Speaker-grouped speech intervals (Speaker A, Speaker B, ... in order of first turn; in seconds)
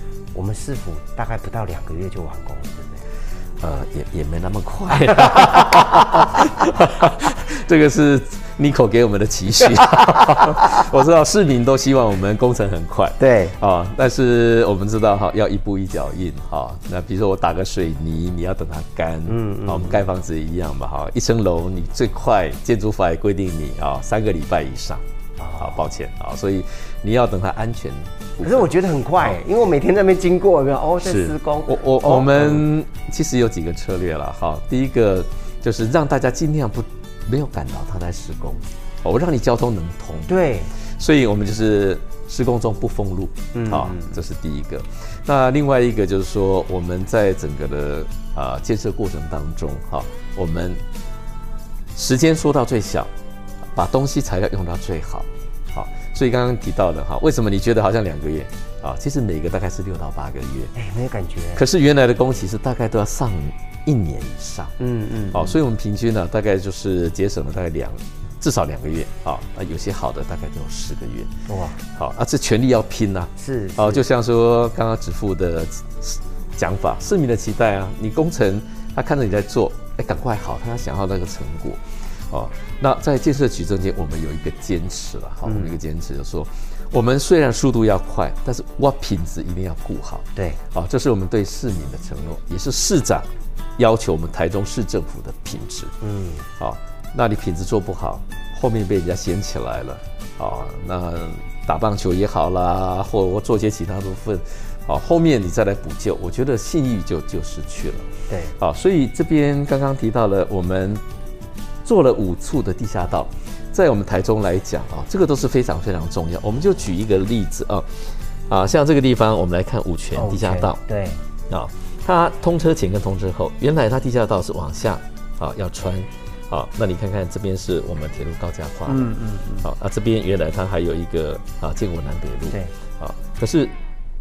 Speaker A: 0.3-3.0, 13.2-13.6, 19.3-20.1, 25.4-25.8, 28.4-32.6, 40.3-40.7, 43.5-44.2, 60.8-61.6, 64.8-65.6, 71.5-71.8, 73.4-74.0, 85.5-85.8, 90.4-90.6, 96.0-96.5, 108.3-108.5, 120.2-121.2, 128.9-129.7
Speaker B: 3.6-25.0, 25.6-28.7, 31.0-50.8, 52.0-53.1, 53.7-60.7, 61.5-64.7, 65.3-71.3, 71.8-95.9, 96.6-111.0, 111.8-120.8, 121.5-133.7